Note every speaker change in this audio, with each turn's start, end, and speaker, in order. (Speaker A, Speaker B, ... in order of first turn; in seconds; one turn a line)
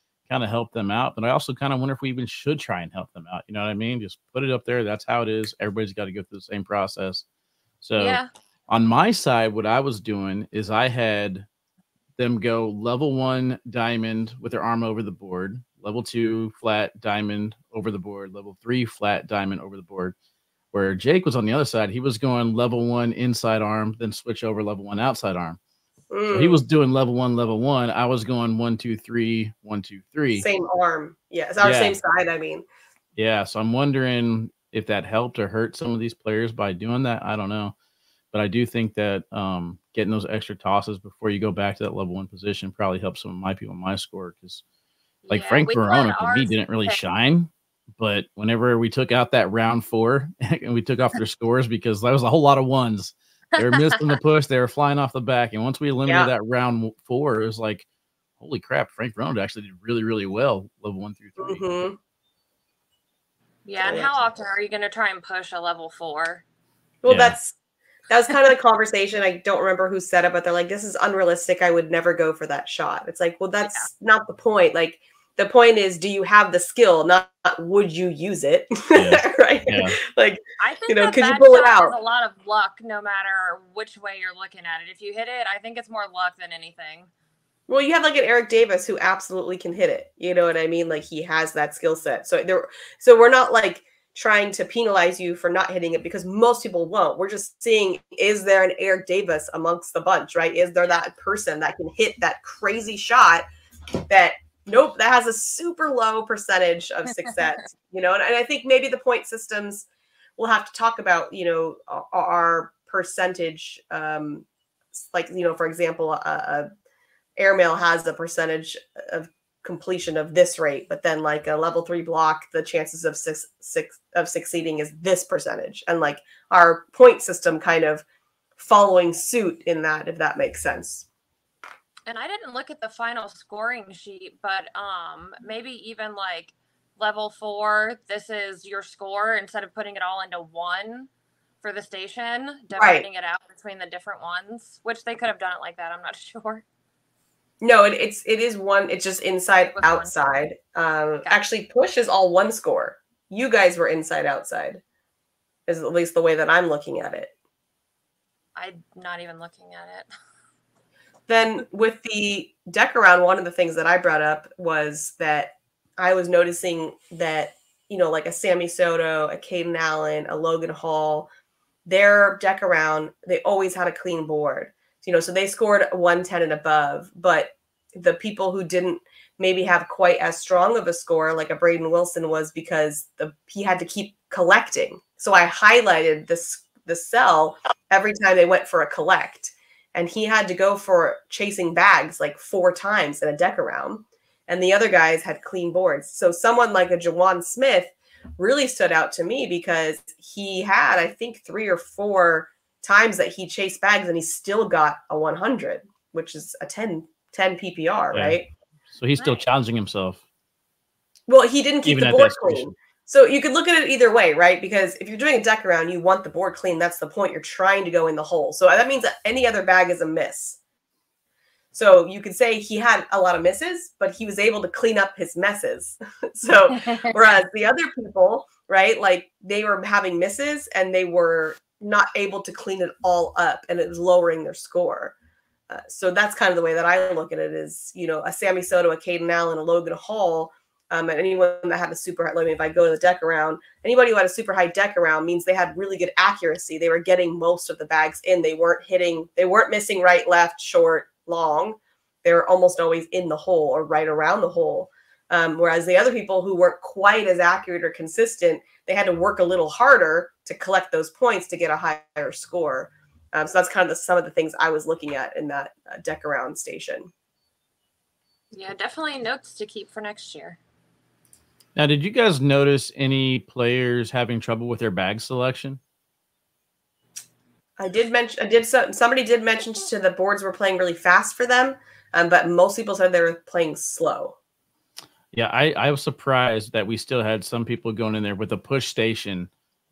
Speaker A: 0.3-7.2
Speaker A: 7.8-11.5
Speaker B: 8.0-8.3
Speaker A: 12.2-20.1
Speaker A: 20.7-25.6
Speaker C: 26.1-26.6
Speaker A: 26.3-30.4
Speaker C: 30.3-32.6
Speaker A: 31.6-32.0
Speaker A: 33.1-37.7
Speaker A: 38.3-44.6
Speaker B: 45.2-47.0
Speaker A: 45.3-57.8
Speaker B: 53.6-54.2
Speaker A: 58.4-61.8
Speaker C: 61.4-62.0
Speaker B: 63.6-66.4
Speaker C: 63.8-64.2
Speaker C: 67.0-67.5
Speaker A: 67.0-67.4
Speaker C: 68.1-81.9
Speaker A: 78.9-80.0
Speaker B: 80.6-87.1
Speaker C: 87.7-103.4
Speaker C: 104.1-116.7
Speaker C: 117.4-128.0
Speaker C: 128.6-131.1
Speaker B: 132.1-141.1
Speaker B: 141.6-146.6
Speaker C: 142.7-143.0
Speaker C: 147.6-154.8
Speaker B: 149.8-150.1
Speaker C: 155.7-157.3
Speaker B: 158.6-160.1
Speaker C: 161.3-171.3
Speaker C: 171.8-208.5
Speaker A: 208.1-208.4
Speaker A: 208.9-210.2
Speaker B: 209.2-209.4
Speaker C: 211.3-220.6
Speaker A: 211.8-212.7
Speaker C: 221.7-235.1
Speaker C: 235.7-267.1
Speaker B: 268.5-270.6
Speaker A: 271.8-275.8
Speaker C: 277.8-284.4
Speaker A: 285.3-289.5